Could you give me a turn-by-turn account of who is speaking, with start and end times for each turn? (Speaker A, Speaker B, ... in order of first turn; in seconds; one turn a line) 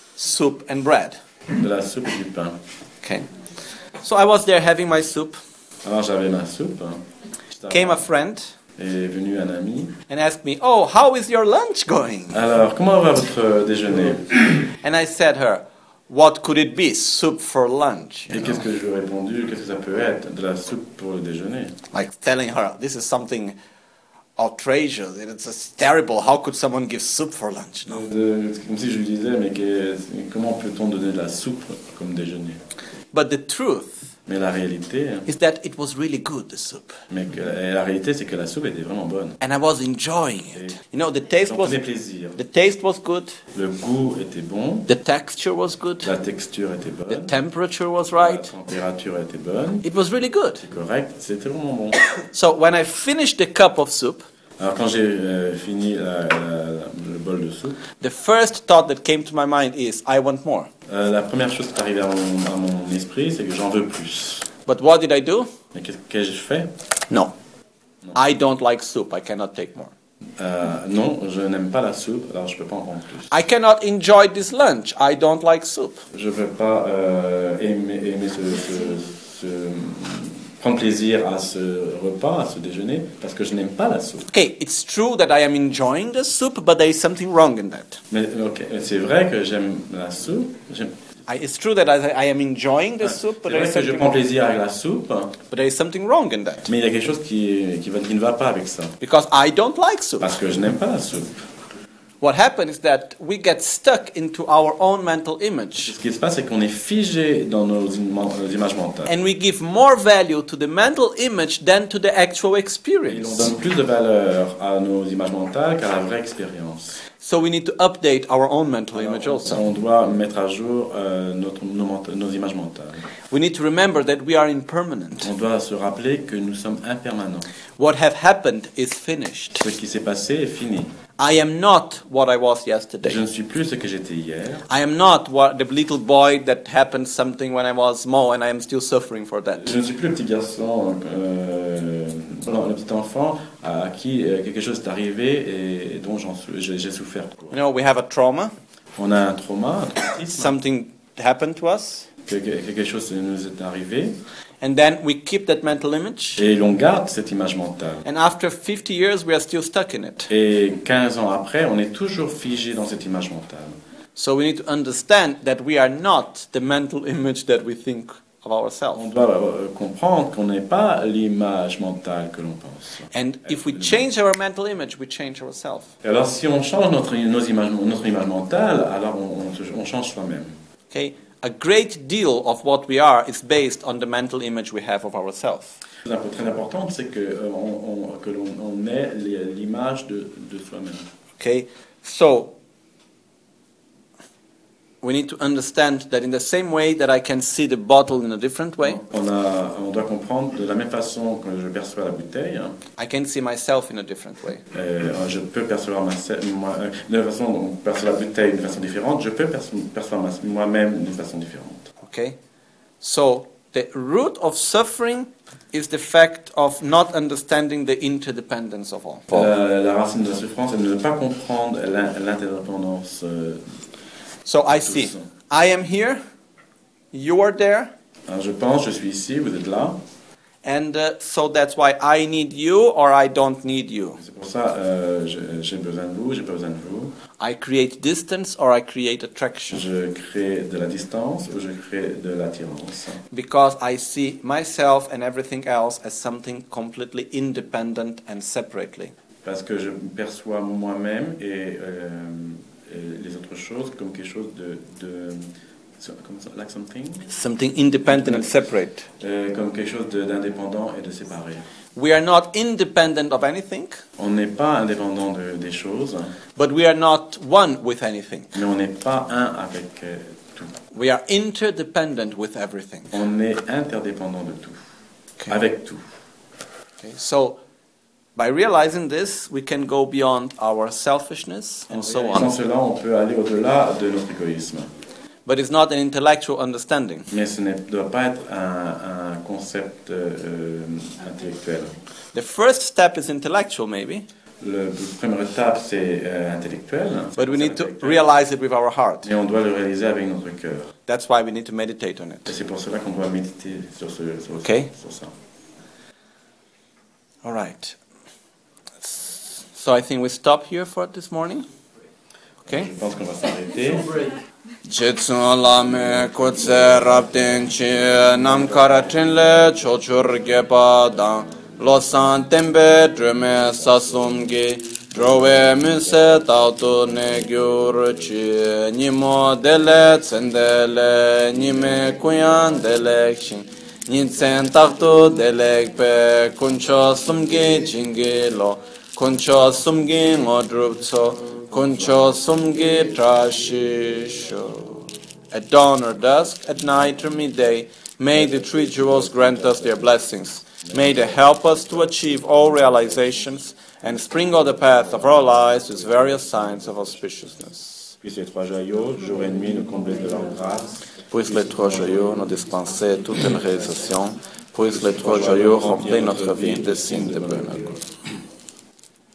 Speaker A: 0.2-1.2
Speaker B: 1.5-2.6
Speaker A: 3.0-3.3
Speaker A: 4.0-5.4
Speaker B: 5.8-8.1
Speaker A: 7.7-8.5
Speaker B: 8.8-10.0
Speaker A: 10.1-12.4
Speaker B: 12.3-14.7
Speaker A: 14.7-18.6
Speaker B: 18.3-21.8
Speaker A: 21.9-23.6
Speaker A: 24.4-28.0
Speaker B: 27.9-32.6
Speaker A: 33.1-34.1
Speaker B: 34.2-35.3
Speaker A: 35.3-37.0
Speaker B: 37.1-39.4
Speaker A: 39.4-41.8
Speaker B: 41.4-42.4
Speaker A: 42.4-43.4
Speaker B: 43.5-44.9
Speaker A: 44.9-46.1
Speaker B: 46.0-47.4
Speaker A: 47.1-48.5
Speaker B: 48.1-49.9
Speaker A: 49.8-50.6
Speaker B: 50.6-52.0
Speaker A: 52.2-54.2
Speaker B: 54.6-57.8
Speaker A: 58.0-60.7
Speaker B: 60.9-64.5
Speaker A: 64.6-65.5
Speaker B: 65.7-66.8
Speaker A: 68.1-69.9
Speaker B: 70.4-73.3
Speaker A: 73.3-76.1
Speaker B: 76.1-84.3
Speaker A: 84.3-88.0
Speaker B: 88.1-91.0
Speaker A: 91.3-94.2
Speaker B: 93.0-95.4
Speaker A: 95.5-96.7
Speaker B: 96.7-99.0
Speaker A: 99.0-100.3
Speaker B: 100.2-101.4
Speaker A: 102.2-105.9
Speaker B: 105.8-109.1
Speaker A: 109.0-113.5
Speaker B: 113.1-117.0
Speaker A: 117.2-119.6
Speaker B: 118.9-123.0
Speaker A: 123.3-125.3
Speaker B: 125.2-127.5
Speaker A: 127.8-129.7
Speaker B: 129.6-130.9
Speaker A: 131.2-133.2
Speaker B: 133.0-134.7
Speaker A: 134.7-139.7
Speaker B: 139.6-147.6
Speaker A: 147.5-148.5
Speaker B: 148.9-150.6
Speaker A: 150.3-152.1
Speaker B: 152.2-154.2
Speaker A: 154.6-156.4
Speaker B: 156.4-158.0
Speaker A: 158.0-160.3
Speaker B: 160.3-163.8
Speaker A: 164.2-169.1
Speaker B: 168.9-174.0
Speaker A: 173.1-175.9
Speaker B: 176.0-180.6
Speaker A: 180.9-185.8
Speaker B: 186.0-191.1
Speaker A: 191.4-192.5
Speaker A: 195.0-199.0
Speaker B: 198.8-202.8
Speaker A: 203.0-204.6
Speaker B: 204.7-211.9
Speaker A: 212.0-212.4
Speaker A: 213.0-219.4
Speaker B: 219.3-223.8
Speaker A: 224.4-226.2
Speaker B: 224.7-225.3
Speaker A: 227.1-227.9
Speaker B: 228.3-230.0
Speaker A: 230.6-234.2
Speaker B: 234.2-237.2
Speaker A: 237.4-239.8
Speaker B: 239.7-243.2
Speaker A: 243.3-249.1
Speaker B: 249.4-257.3
Speaker A: 257.3-259.1
Speaker B: 258.1-258.5
Speaker B: 259.2-261.7
Speaker A: 261.9-264.0
Speaker B: 264.2-266.4
Speaker A: 266.6-268.5
Speaker B: 268.5-270.7
Speaker A: 270.9-273.1
Speaker B: 273.1-274.8
Speaker B: 275.5-276.0
Speaker A: 277.0-277.6
Speaker A: 278.4-282.5
Speaker B: 281.9-284.9
Speaker A: 285.4-287.3
Speaker B: 287.3-292.0
Speaker A: 292.3-294.3
Speaker B: 294.6-298.3
Speaker A: 297.4-299.3
Speaker B: 299.2-300.9
Speaker A: 301.1-302.5
Speaker B: 302.4-305.3
Speaker A: 304.6-304.9
Speaker A: 307.4-308.0
Speaker A: 309.0-311.6
Speaker B: 312.7-314.3
Speaker A: 314.9-358.2
Speaker B: 348.3-350.1
Speaker B: 350.8-351.6
Speaker B: 358.2-362.1
Speaker A: 361.3-367.9
Speaker B: 364.9-368.0